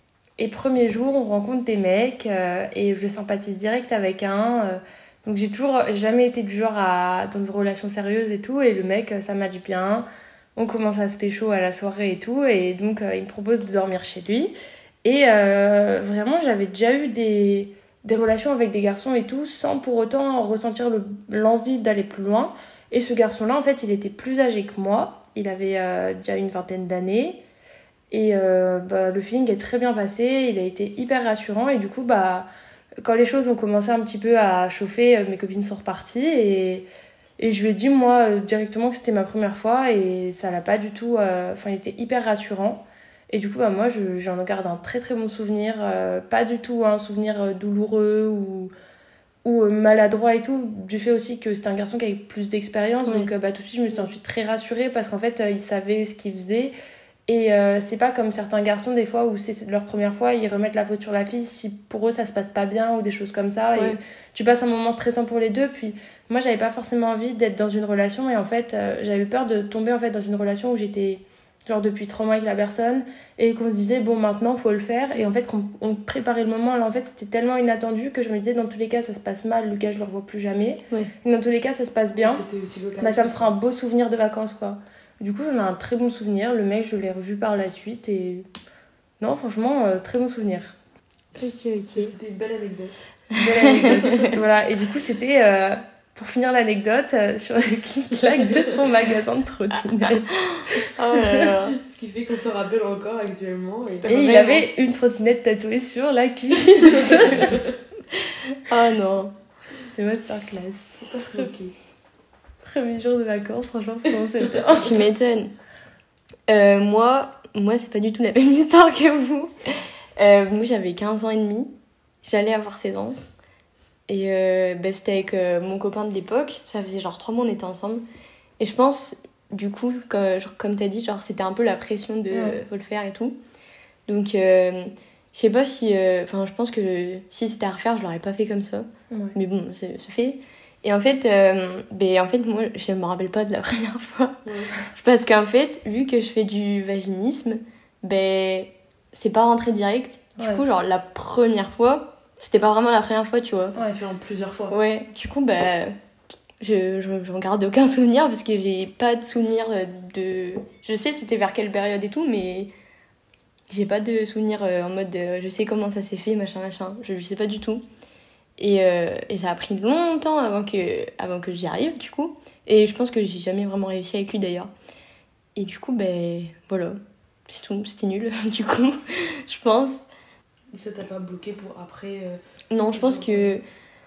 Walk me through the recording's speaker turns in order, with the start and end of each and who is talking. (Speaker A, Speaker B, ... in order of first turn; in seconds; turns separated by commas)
Speaker A: 0.4-14.5, Speaker A: 15.0-27.4, Speaker A: 28.1-32.5, Speaker A: 33.0-36.9, Speaker A: 37.4-48.7, Speaker A: 49.4-56.7, Speaker A: 57.3-82.4, Speaker B: 82.2-83.5, Speaker A: 83.0-88.5, Speaker A: 89.2-90.8, Speaker C: 91.4-92.1, Speaker B: 91.9-93.0, Speaker C: 93.3-94.4, Speaker A: 93.3-101.3, Speaker B: 93.8-94.3, Speaker B: 98.4-98.8, Speaker C: 100.0-101.8, Speaker B: 101.8-104.3, Speaker C: 104.1-104.6, Speaker A: 104.1-107.6, Speaker C: 106.5-107.5, Speaker B: 107.0-107.6, Speaker C: 108.5-109.3, Speaker A: 109.7-111.5, Speaker B: 111.0-111.7, Speaker A: 112.6-115.0, Speaker C: 114.8-115.5, Speaker C: 116.5-123.2, Speaker C: 124.1-128.0, Speaker C: 128.6-133.4, Speaker A: 132.3-132.6, Speaker C: 134.1-144.4, Speaker A: 139.1-139.4, Speaker B: 144.4-144.7, Speaker C: 144.9-153.8, Speaker B: 153.7-154.8, Speaker C: 154.7-155.9, Speaker C: 156.6-162.7, Speaker C: 163.7-167.8, Speaker C: 168.6-174.7, Speaker C: 175.6-180.0, Speaker B: 180.7-183.6, Speaker C: 182.7-183.6